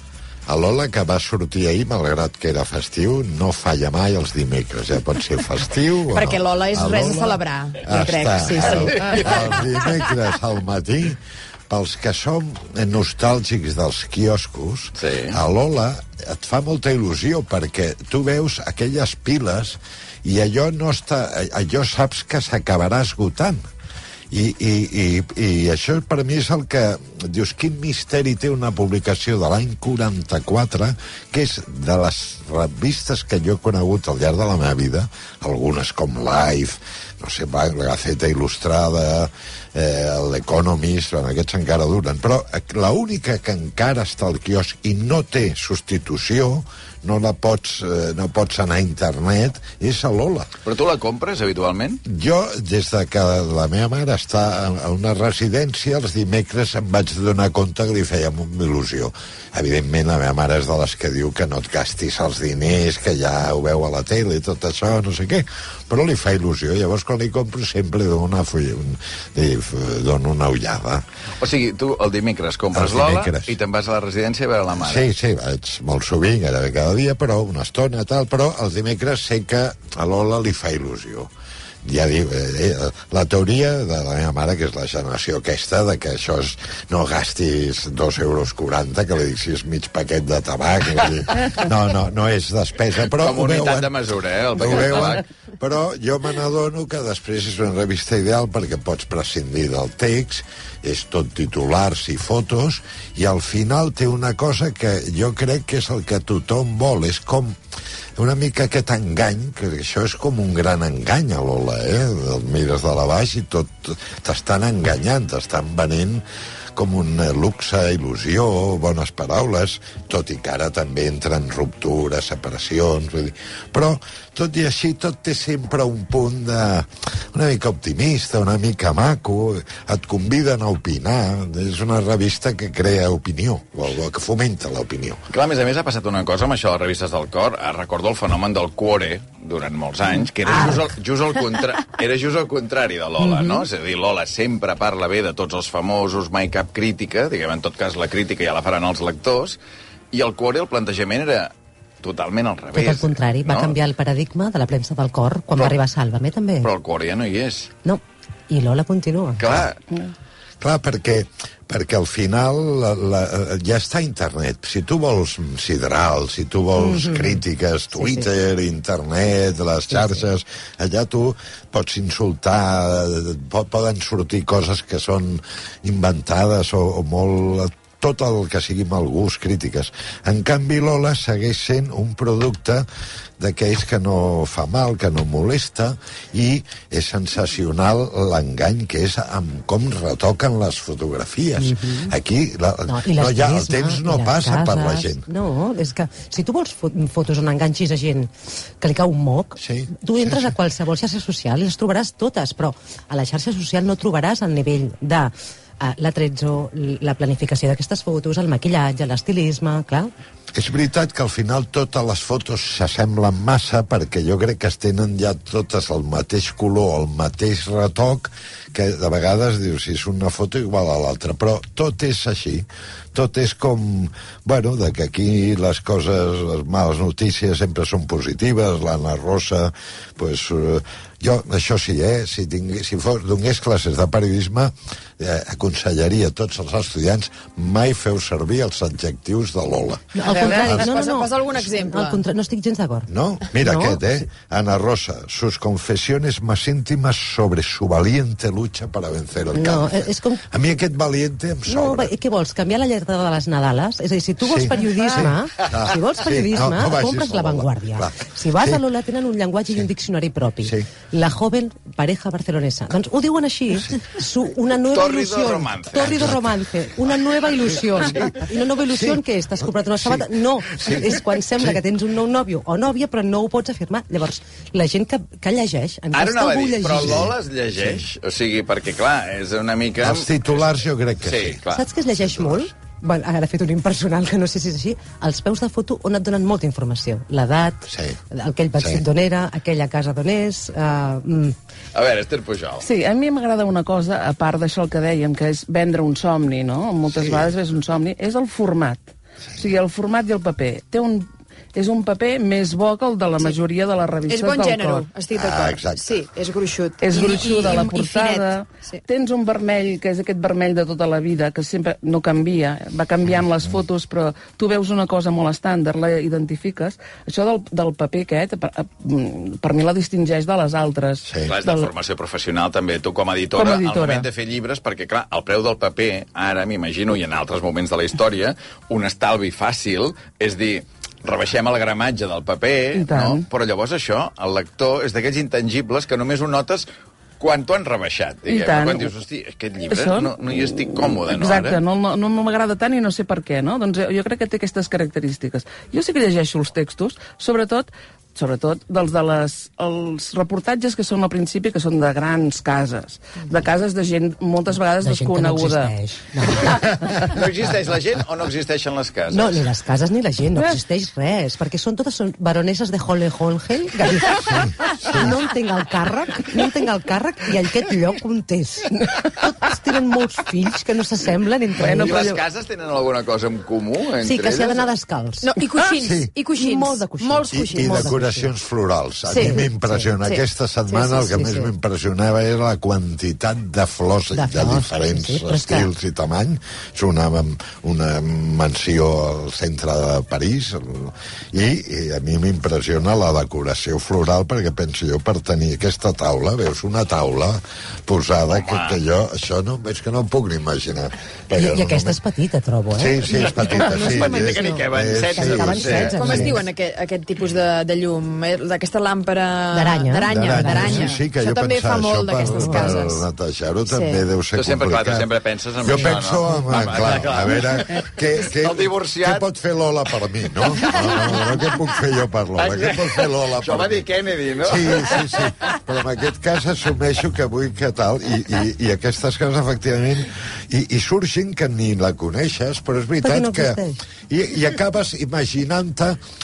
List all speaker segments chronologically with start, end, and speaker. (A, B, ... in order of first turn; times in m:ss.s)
0:00.5-0:23.6 A
0:06.1-0:09.8 B
0:08.6-0:09.0 C
0:15.0-0:15.4 C
0:24.3-0:50.5 A
0:50.6-0:52.0 C
0:52.0-1:11.0 A
1:11.4-1:15.1 C
1:12.7-1:13.6 A
1:14.7-1:21.3 A
1:21.8-1:34.0 A
1:33.1-1:35.2 C
1:34.6-1:47.6 A
1:48.2-1:56.2 A
1:56.8-2:15.2 A
2:15.3-2:29.6 C
2:23.2-2:23.6 D
2:30.1-2:33.8 C
2:32.7-2:36.7 D
2:36.6-2:37.7 C
2:37.8-2:39.4 D
2:39.4-2:39.8 C
2:40.6-3:02.9 A
2:46.8-2:47.4 D
2:47.9-2:48.3 D
2:49.9-2:50.2 D
3:03.4-3:15.3 A
3:11.6-3:12.1 D
3:12.9-3:30.1 D
3:19.6-3:20.5 A
3:30.6-4:00.9 A
4:00.1-4:04.0 D
4:00.2-4:02.2 B
4:03.1-4:12.1 A
4:09.5-4:10.4 D
4:11.7-4:37.3 D
4:14.4-4:18.8 A
4:20.6-4:20.9 A
4:24.9-4:26.4 C
4:26.0-4:26.5 A
4:28.0-4:28.3 A
4:28.9-4:29.2 A
4:29.9-4:31.8 A
4:36.1-4:40.3 C
4:37.0-4:38.0 A
4:40.0-4:41.6 A
4:41.2-4:41.9 C
4:41.7-4:51.6 D
4:42.2-4:42.7 A
4:47.9-4:48.2 A
4:48.8-4:49.0 A
4:52.0-4:52.9 C
4:52.8-5:05.0 E
4:57.1-4:57.5 A
5:04.3-5:09.0 B
5:05.3-5:06.2 A
5:07.0-5:21.9 E
5:21.3-5:21.5 A
5:21.5-5:36.9 C
5:23.6-5:24.3 E
5:32.9-5:33.4 E
5:37.4-5:41.8 C
5:38.5-5:39.1 E
5:39.9-5:55.9 E
5:55.0-5:57.0 D
5:57.0-5:59.6 C
5:59.3-6:12.3 D
6:04.4-6:05.4 A
6:11.8-6:12.4 E
6:12.0-6:14.9 C
6:14.2-6:15.5 D
6:15.4-6:18.1 B
6:16.0-6:16.3 A
6:16.5-6:18.5 D
6:17.5-6:42.2 A
6:19.3-6:19.7 B
6:19.4-6:20.2 D
6:20.9-6:21.7 D
6:24.3-6:25.9 D
6:38.5-6:39.0 C
6:41.6-6:46.6 D
6:42.9-6:46.6 A
6:43.3-6:46.3 C
6:45.8-6:53.3 B
6:49.7-6:51.2 D
6:50.3-6:55.3 A
6:52.4-6:53.0 D
6:53.9-6:54.3 B
6:54.5-6:59.5 C
6:55.8-7:04.0 A
7:00.7-7:01.7 C
7:02.6-7:05.8 C
7:04.6-7:16.2 A
7:13.2-7:14.0 D